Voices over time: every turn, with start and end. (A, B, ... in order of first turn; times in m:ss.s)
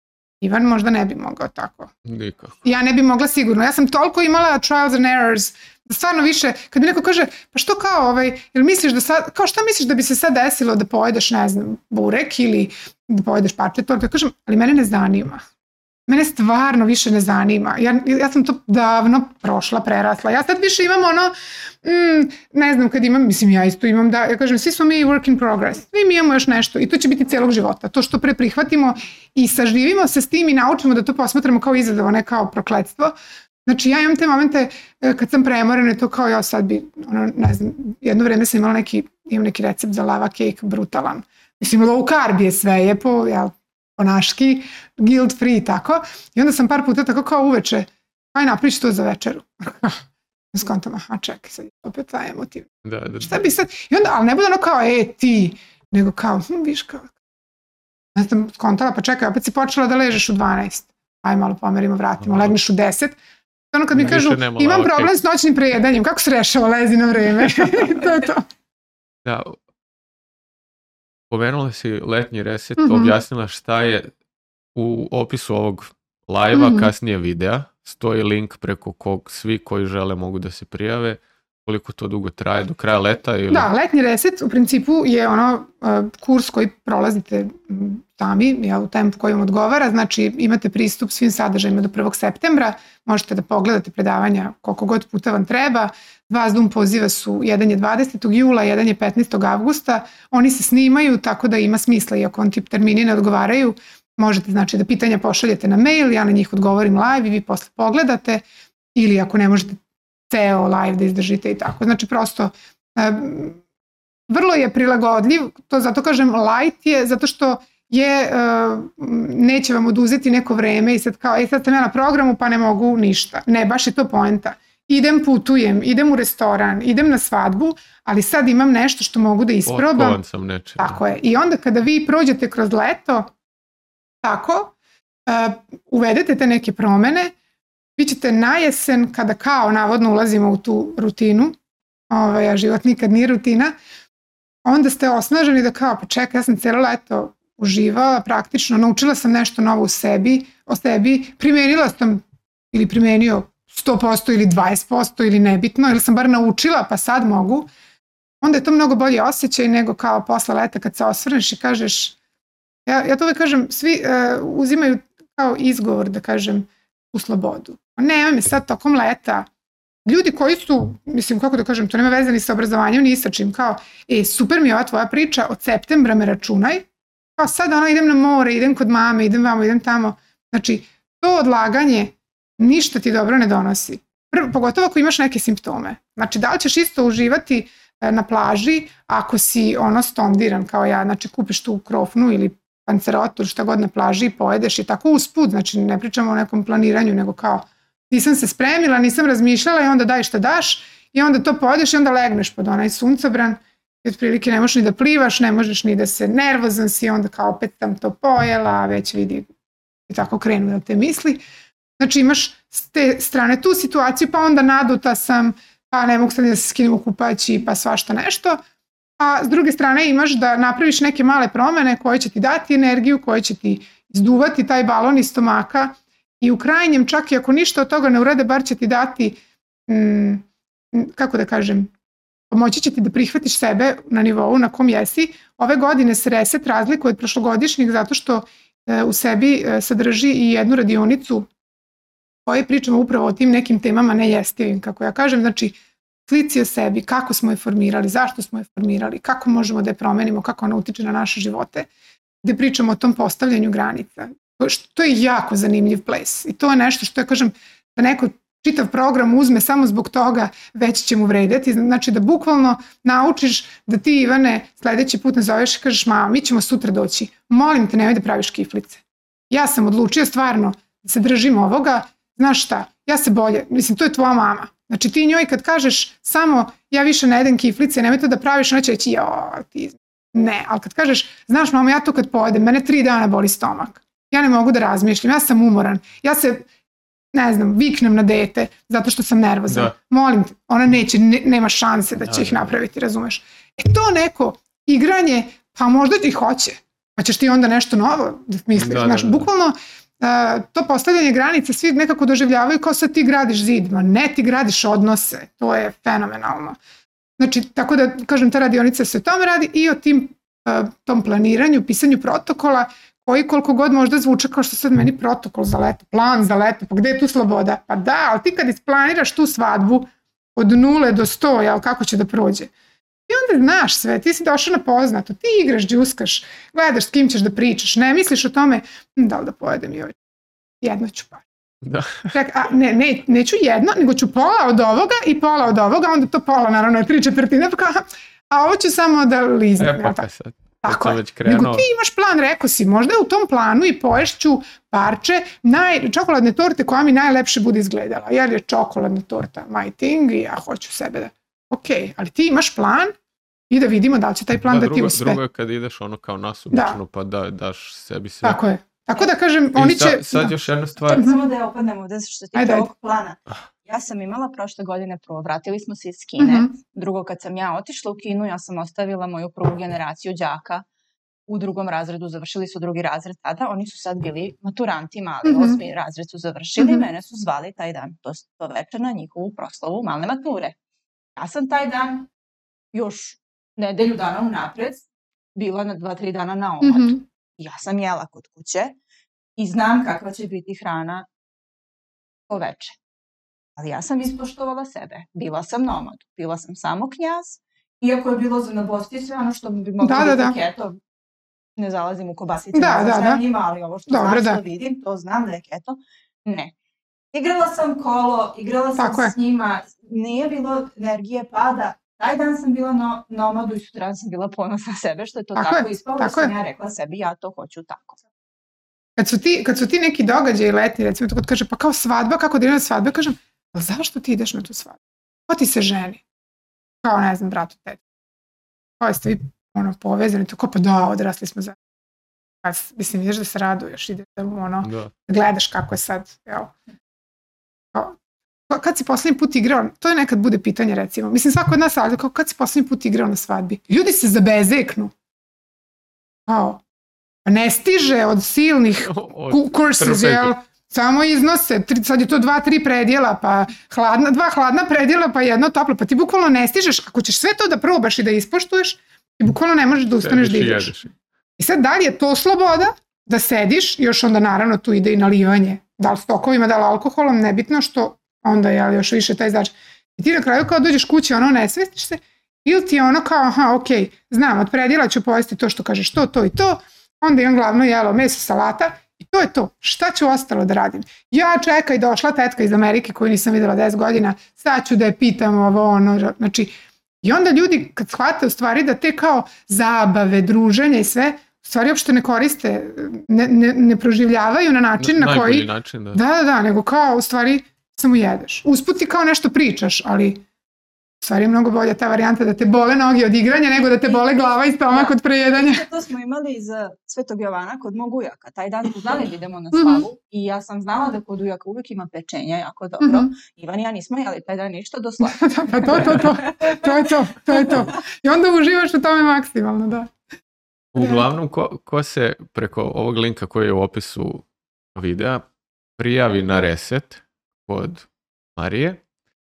0:00.4-0:01.9 A
0:02.0-0:02.6 B
0:02.6-0:15.4 A
0:16.1-0:21.3 A
0:21.8-0:33.1 A
0:33.6-0:52.7 A
0:52.8-0:53.4 B
0:53.2-0:57.1 A
0:58.1-1:03.2 A
1:02.2-1:02.5 B
1:03.7-1:08.4 A
1:03.9-1:05.1 B
1:09.2-1:09.6 B
1:11.3-1:14.1 B
1:12.8-1:13.2 A
1:14.7-1:23.7 B
1:16.5-1:16.9 A
1:23.5-1:48.4 A
1:48.9-1:53.6 A
1:54.3-2:10.2 A
2:09.6-2:11.0 B
2:10.8-2:13.3 A
2:14.2-2:14.7 A
2:15.2-2:17.3 A
2:18.0-2:21.6 A
2:22.1-2:23.7 A
2:24.6-2:37.7 A
2:38.4-2:42.2 A
2:42.8-2:49.5 A
2:50.0-2:56.8 A
2:57.4-3:29.5 A
3:30.1-3:31.4 A
3:32.0-3:38.6 A
3:39.2-3:51.9 A
3:52.5-4:01.5 A
4:02.4-4:11.9 A
4:12.4-4:46.7 A
4:47.3-5:06.8 A
4:49.7-4:49.9 B
4:52.2-4:52.7 B
4:58.8-4:59.5 B
5:07.4-5:22.7 A
5:23.3-5:30.2 A
5:30.8-5:31.4 A
5:31.8-5:32.3 B
5:32.3-5:40.2 A
5:39.8-5:41.9 B
5:40.8-5:53.1 A
5:53.7-5:55.4 A
5:54.6-5:58.6 B
5:56.7-5:57.0 A
5:58.4-6:00.5 A
5:59.7-6:01.3 B
6:01.1-6:10.8 C
6:02.5-6:02.9 A
6:06.4-6:06.7 A
6:11.5-6:20.8 C
6:15.4-6:15.8 A
6:16.8-6:17.0 A
6:21.4-6:22.3 C
6:22.9-6:28.9 C
6:26.8-6:27.2 A
6:29.6-6:31.2 C
6:32.5-6:33.0 C
6:33.8-6:41.0 C
6:40.0-6:40.6 A
6:41.8-6:46.7 C
6:42.7-6:43.4 A
6:44.1-6:44.6 A
6:47.3-6:58.2 C
6:49.0-6:49.3 A
6:55.6-6:56.5 A
6:59.2-7:06.2 A
7:07.0-7:08.0 A
7:09.0-7:11.8 A
7:12.6-7:16.7 A
7:14.8-7:15.1 B
7:17.9-7:18.2 A
7:18.7-7:25.1 A
7:26.5-7:26.8 A
7:27.4-7:40.9 A
7:29.0-7:30.5 B
7:40.2-7:41.1 B
7:41.6-8:20.4 A
8:15.0-8:16.2 B
8:21.2-8:25.8 A
8:23.9-8:37.0 C
8:29.7-8:30.0 A
8:33.0-8:33.3 A
8:35.2-8:40.1 A
8:40.9-8:44.4 B
8:44.9-8:45.4 B
8:46.0-8:49.0 B